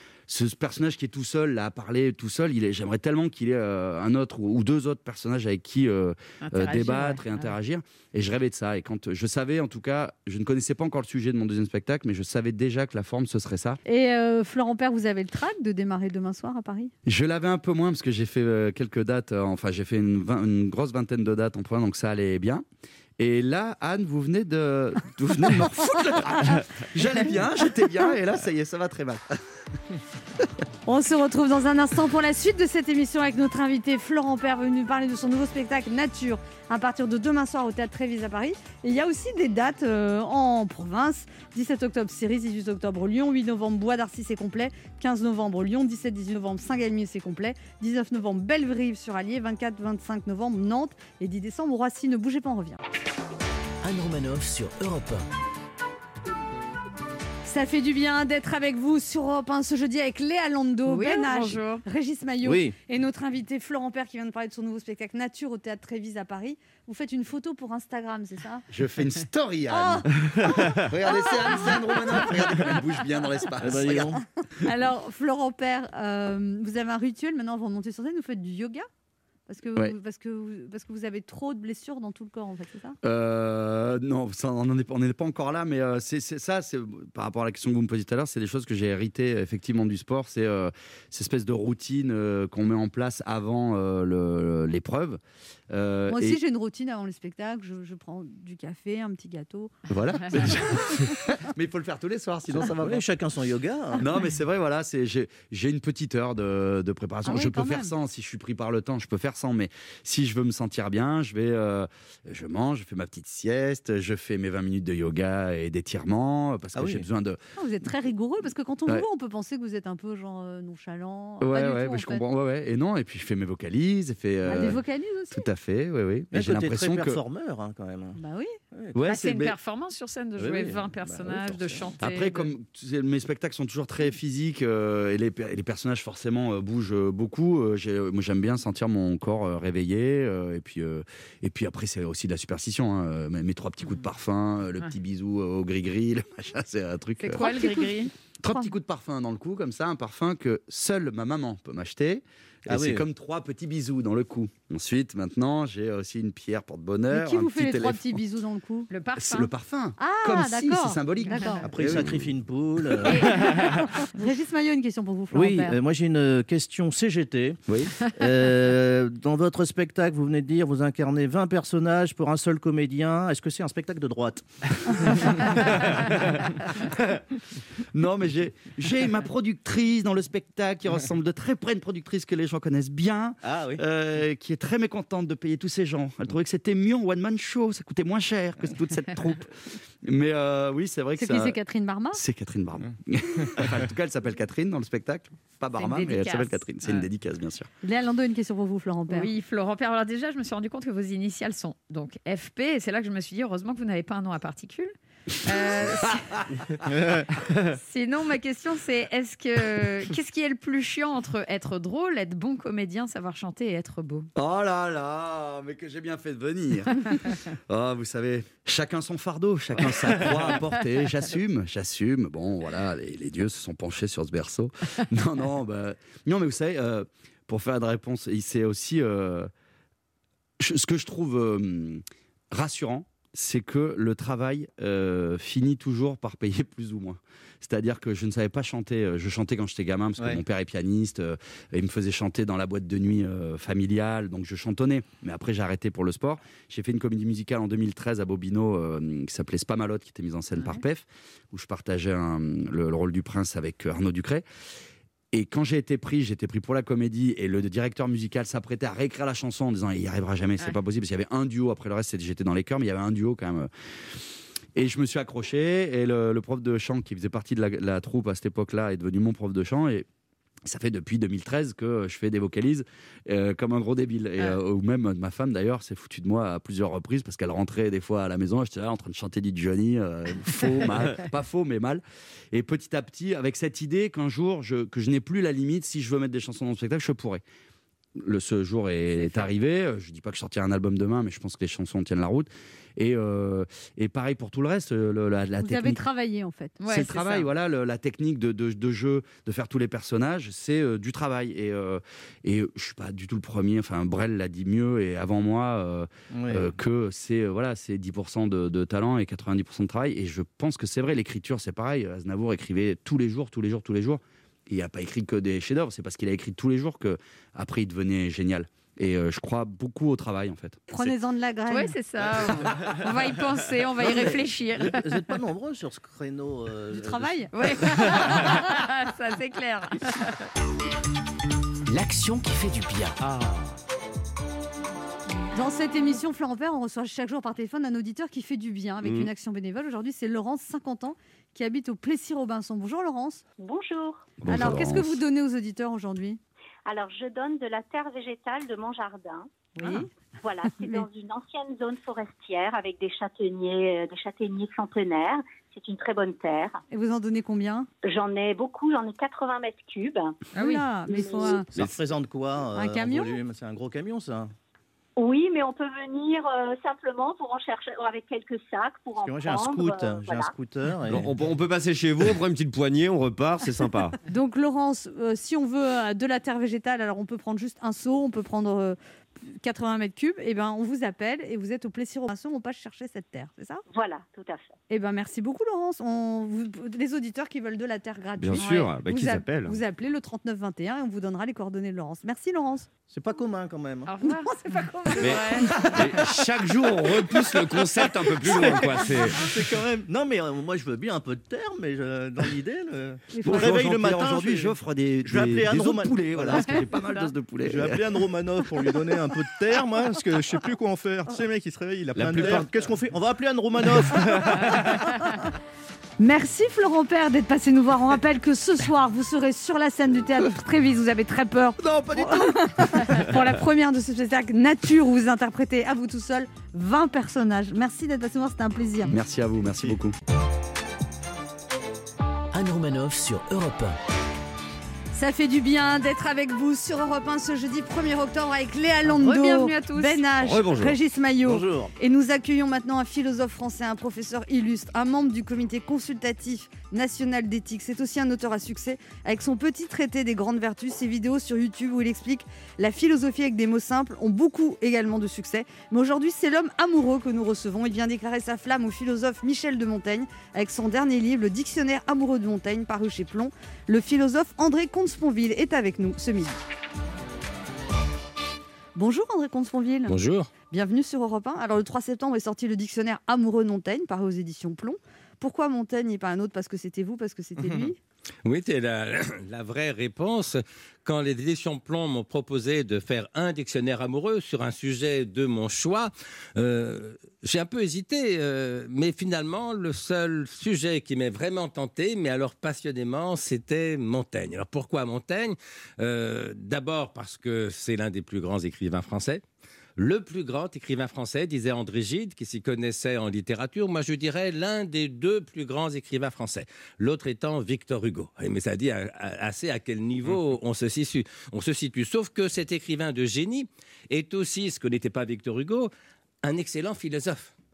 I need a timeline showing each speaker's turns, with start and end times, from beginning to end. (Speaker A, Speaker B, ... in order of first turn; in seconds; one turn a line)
Speaker A: 0.3-13.8
Speaker B: 6.4-7.5
Speaker C: 13.8-16.9
Speaker A: 17.1-22.6
Speaker A: 23.2-29.4
Speaker C: 30.9-52.8
Speaker D: 53.8-55.2
Speaker C: 57.5-68.6
Speaker B: 60.9-61.8
Speaker E: 62.4-62.8
Speaker A: 68.7-74.2
Speaker C: 69.7-72.8
Speaker E: 73.6-74.2
Speaker C: 74.6-78.9
Speaker C: 79.5-83.0
Speaker A: 83.0-96.4
Speaker C: 96.1-99.7
Speaker A: 99.9-103.0
Speaker E: 102.5-104.0
Speaker A: 104.0-117.4
Speaker C: 107.2-107.9
Speaker E: 116.8-117.0
Speaker C: 117.6-122.2
Speaker A: 121.4-127.2
Speaker C: 124.5-125.5
Speaker E: 126.3-128.2
Speaker C: 128.1-128.6
Speaker E: 128.7-129.0
Speaker A: 128.9-129.6
Speaker B: 129.1-132.5
Speaker E: 130.4-131.9
Speaker A: 132.0-147.5
Speaker B: 147.2-148.1
Speaker C: 147.4-147.9
Speaker A: 148.4-158.2
Speaker E: 152.7-153.0
Speaker C: 157.1-158.9
Speaker B: 158.9-159.5
Speaker A: 159.2-162.2
Speaker C: 160.0-161.7
Speaker E: 161.6-163.8
Speaker C: 163.1-165.8
Speaker E: 165.3-167.6
Speaker A: 167.7-167.9
Speaker E: 168.2-176.0
Speaker A: 175.6-177.2
Speaker A: 177.9-191.6
Speaker E: 183.4-183.8
Speaker C: 191.2-192.2
Speaker A: 192.1-197.7
Speaker B: 195.8-196.6
Speaker C: 197.8-199.3
Speaker B: 199.1-204.9
Speaker B: 205.4-206.4
Speaker A: 205.5-206.9
Speaker E: 206.9-207.3
Speaker B: 207.7-214.3
Speaker A: 214.4-229.5
Speaker A: 230.6-254.4
Speaker A: 255.3-270.1
Speaker A: 270.6-287.4
Speaker A: 288.2-296.0
Speaker C: 295.6-296.8
Speaker B: 296.8-297.3
Speaker A: 296.9-320.8
Speaker E: 306.3-306.7
Speaker C: 320.9-322.0
Speaker B: 321.7-325.0
Speaker E: 324.0-328.2
Speaker C: 326.9-327.5
Speaker B: 327.5-330.4
Speaker C: 328.1-328.6
Speaker D: 331.9-333.2
Speaker C: 335.5-343.4
Speaker F: 339.0-339.3
Speaker G: 343.6-344.4
Speaker A: 344.4-345.2
Speaker C: 344.5-346.4
Speaker G: 346.9-349.6
Speaker C: 349.8-350.1
Speaker G: 350.4-356.8
Speaker C: 356.9-357.9
Speaker G: 358.0-360.4
Speaker B: 360.5-361.3
Speaker C: 360.6-361.7
Speaker G: 361.1-361.6
Speaker E: 361.8-364.5
Speaker C: 362.8-363.4
Speaker G: 365.2-370.5
Speaker E: 369.2-371.3
Speaker F: 371.1-374.2
Speaker C: 374.3-383.8
Speaker G: 383.9-384.8
Speaker C: 384.9-392.9
Speaker F: 388.4-389.8
Speaker B: 388.6-388.9
Speaker E: 393.1-394.1
Speaker B: 394.1-394.6
Speaker C: 394.2-395.7
Speaker B: 395.1-395.7
Speaker F: 395.2-399.5
Speaker E: 397.1-406.8
Speaker A: 398.5-399.1
Speaker C: 403.3-403.8
Speaker A: 403.4-408.2
Speaker E: 407.6-415.2
Speaker F: 412.2-412.7
Speaker A: 412.3-412.6
Speaker C: 416.2-429.1
Speaker E: 421.8-422.8
Speaker A: 429.1-430.2
Speaker D: 432.5-434.0
Speaker C: 435.1-466.6
Speaker B: 439.2-440.2
Speaker F: 440.4-441.0
Speaker E: 441.4-441.9
Speaker C: 468.9-470.1
Speaker H: 470.1-470.5
Speaker C: 470.7-478.0
Speaker E: 477.6-477.9
Speaker H: 478.4-499.4
Speaker H: 500.0-515.9
Speaker H: 516.4-517.5